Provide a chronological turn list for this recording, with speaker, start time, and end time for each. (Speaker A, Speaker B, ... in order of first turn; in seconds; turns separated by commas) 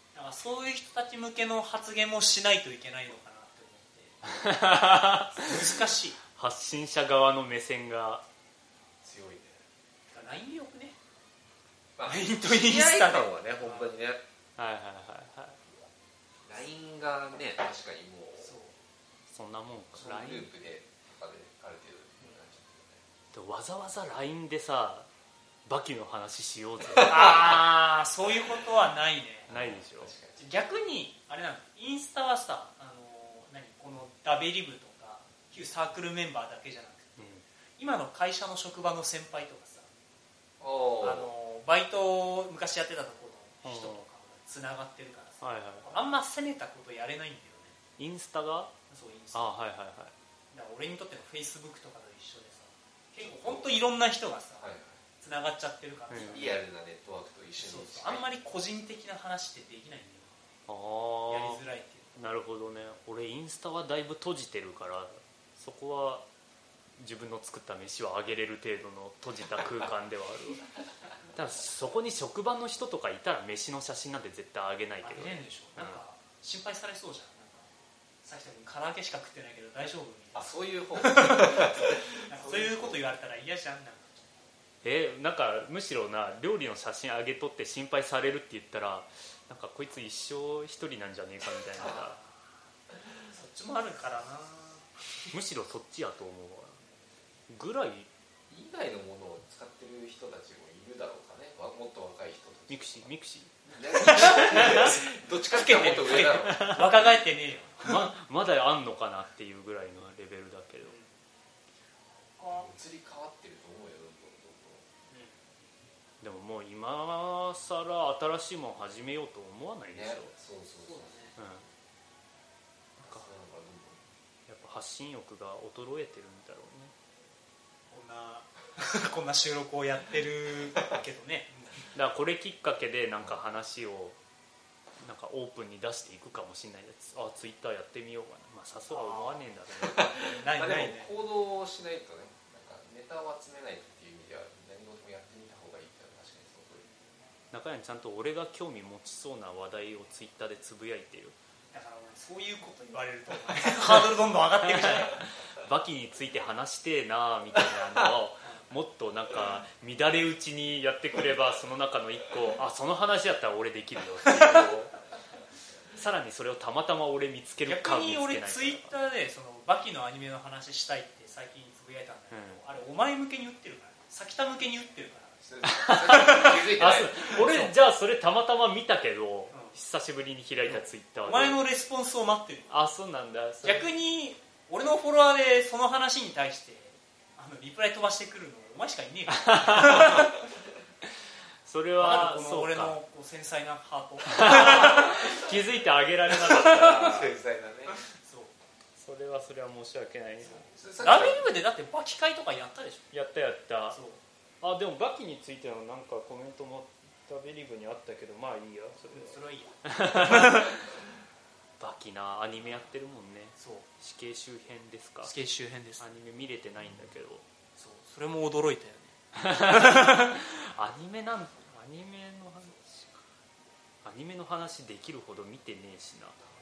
Speaker A: 0.1-4.4, Speaker B: 4.2-5.6, Speaker A: 5.3-6.2, Speaker B: 6.3-8.2, Speaker C: 9.0-9.6, Speaker A: 10.1-10.9, Speaker C: 12.0-14.2, Speaker A: 12.0-13.9, Speaker B: 14.6-15.6, Speaker C: 16.4-18.5, Speaker A: 18.4-18.7, Speaker B: 19.3-20.5, Speaker C: 19.9-23.0, Speaker B: 23.3-25.1, Speaker B: 25.6-27.6, Speaker A: 27.0-29.5, Speaker C: 29.5-30.4, Speaker B: 29.5-30.1, Speaker A: 30.4-39.9, Speaker B: 37.2-37.4, Speaker C: 40.6-41.3, Speaker A: 41.0-47.8, Speaker B: 43.6-44.0, Speaker B: 45.4-45.9, Speaker B: 48.0-48.7, Speaker A: 48.9-49.5, Speaker B: 49.3-50.1, Speaker A: 50.5-56.6, Speaker C: 53.2-53.7, Speaker C: 54.6-55.0, Speaker B: 56.1-56.5, Speaker C: 56.3-58.3, Speaker A: 57.6-60.3, Speaker B: 60.7-61.6, Speaker A: 61.2-62.2, Speaker B: 62.1-66.2, Speaker B: 67.0-70.6, Speaker B: 71.3-76.0, Speaker A: 75.0-77.7, Speaker A: 78.2-84.4, Speaker C: 80.3-83.0, Speaker B: 84.8-92.2, Speaker A: 91.8-92.5, Speaker A: 93.2-94.9, Speaker B: 95.3-96.8, Speaker B: 97.5-98.1, Speaker C: 98.5-103.1, Speaker B: 102.7-103.5, Speaker C: 103.6-106.7, Speaker A: 104.1-105.0, Speaker B: 104.1-104.8, Speaker A: 105.5-108.1, Speaker B: 105.8-106.9, Speaker B: 107.8-111.0, Speaker A: 110.8-111.1, Speaker A: 112.4-112.7, Speaker C: 112.5-114.8, Speaker A: 115.1-115.3, Speaker B: 116.2-120.3, Speaker C: 119.9-121.3, Speaker A: 120.8-121.4, Speaker B: 121.4-121.6, Speaker B: 123.0-123.3, Speaker C: 123.0-124.0, Speaker B: 124.5-126.9, Speaker A: 127.9-131.9, Speaker B: 131.9-134.2, Speaker B: 135.0-140.1, Speaker A: 138.9-141.1, Speaker C: 139.8-146.8, Speaker B: 147.5-151.3, Speaker A: 151.7-155.2, Speaker B: 154.6-164.9, Speaker A: 158.4-158.7, Speaker A: 164.3-164.7, Speaker B: 165.9-168.9, Speaker A: 167.7-175.4, Speaker B: 172.3-172.6, Speaker C: 175.4-177.3, Speaker B: 175.6-181.6, Speaker A: 176.0-176.7, Speaker A: 177.2-177.7, Speaker A: 179.5-179.8, Speaker A: 180.6-182.8, Speaker B: 182.7-183.9, Speaker A: 183.6-190.3, Speaker B: 189.3-190.3, Speaker B: 191.6-193.0, Speaker A: 192.0-195.4, Speaker B: 194.3-197.4, Speaker A: 196.3-197.1, Speaker C: 196.8-198.0, Speaker A: 197.9-198.5, Speaker B: 199.0-200.6, Speaker C: 200.7-201.5, Speaker A: 201.0-203.1, Speaker B: 203.1-204.0, Speaker A: 203.9-204.2, Speaker B: 204.6-210.9, Speaker A: 209.1-210.7, Speaker B: 211.8-215.3, Speaker A: 213.6-213.9, Speaker A: 215.2-216.0, Speaker B: 216.0-217.4, Speaker A: 217.8-220.3, Speaker B: 219.3-223.1, Speaker B: 224.0-226.4